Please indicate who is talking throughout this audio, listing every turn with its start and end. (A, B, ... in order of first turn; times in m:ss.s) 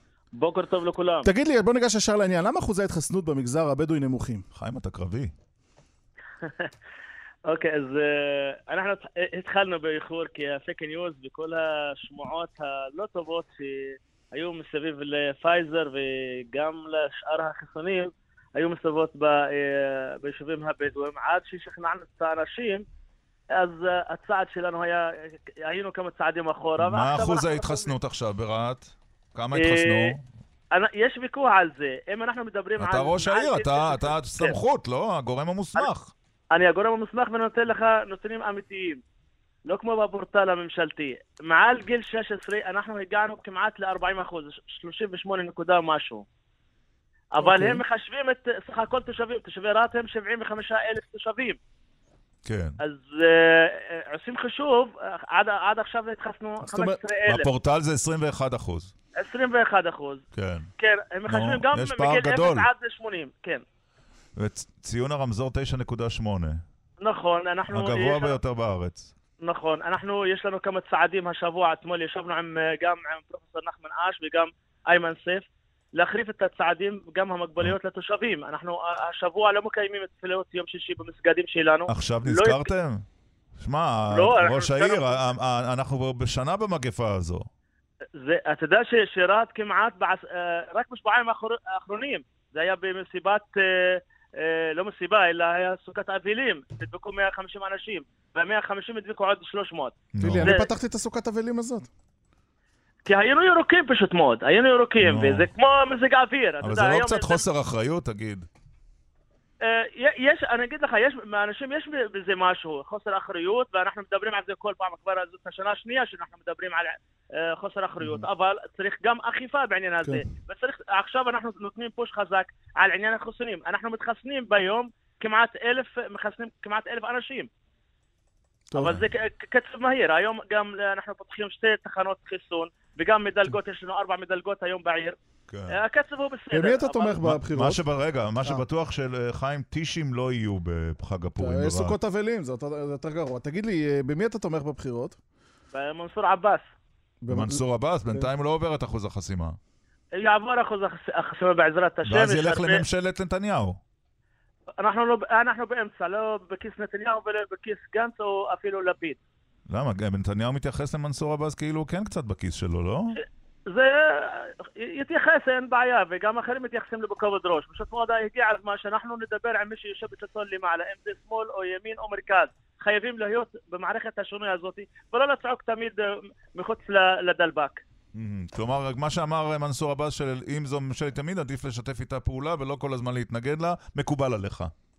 0:00.3-0:01.3 A
0:01.2-0:04.4 B
0:04.5-0:05.3 C
0:06.4-0:06.7 A
0:07.5-0:22.8 A
0:23.5-0:27.9 A
0:26.8-0:30.2 C
0:29.5-0:30.1 A
0:30.7-0:34.6 A
0:32.8-0:36.1 C
0:36.5-0:39.0 A
0:39.6-0:46.2 A
0:47.3-0:51.6 A
0:47.4-0:47.8 B
0:52.4-0:52.8 C
0:52.8-0:57.5 A
0:56.6-0:57.0 B
0:57.2-0:58.9 C
0:59.2-1:00.2 A
1:00.3-1:00.7 C
1:00.8-1:03.6 A
1:01.3-1:02.7 C
1:04.4-1:06.6 C
1:07.0-1:08.4 A
1:07.7-1:09.1 C
1:09.4-1:22.7 A
1:21.9-1:23.0 C
1:23.6-1:27.4 C
1:24.1-1:25.2 A
1:28.1-1:40.7 A
1:40.1-1:40.6 C
1:40.2-1:41.9 B
1:43.0-1:47.4 A
1:45.0-1:45.5 C
1:46.6-1:48.4 C
1:49.6-2:07.5 A
2:08.7-2:15.2 A
2:08.8-2:09.0 C
2:15.5-2:15.8 C
2:15.7-2:17.2 A
2:16.5-2:17.8 B
2:17.2-2:22.0 C
2:21.4-2:25.2 B
2:25.7-2:26.7 A
2:27.2-2:27.6 B
2:27.3-2:29.6 C
2:30.1-2:32.8 A
2:32.0-2:33.8 C
2:34.8-2:39.2 A
2:39.7-2:43.2 C
2:43.7-2:57.8 A
2:58.1-3:04.7 C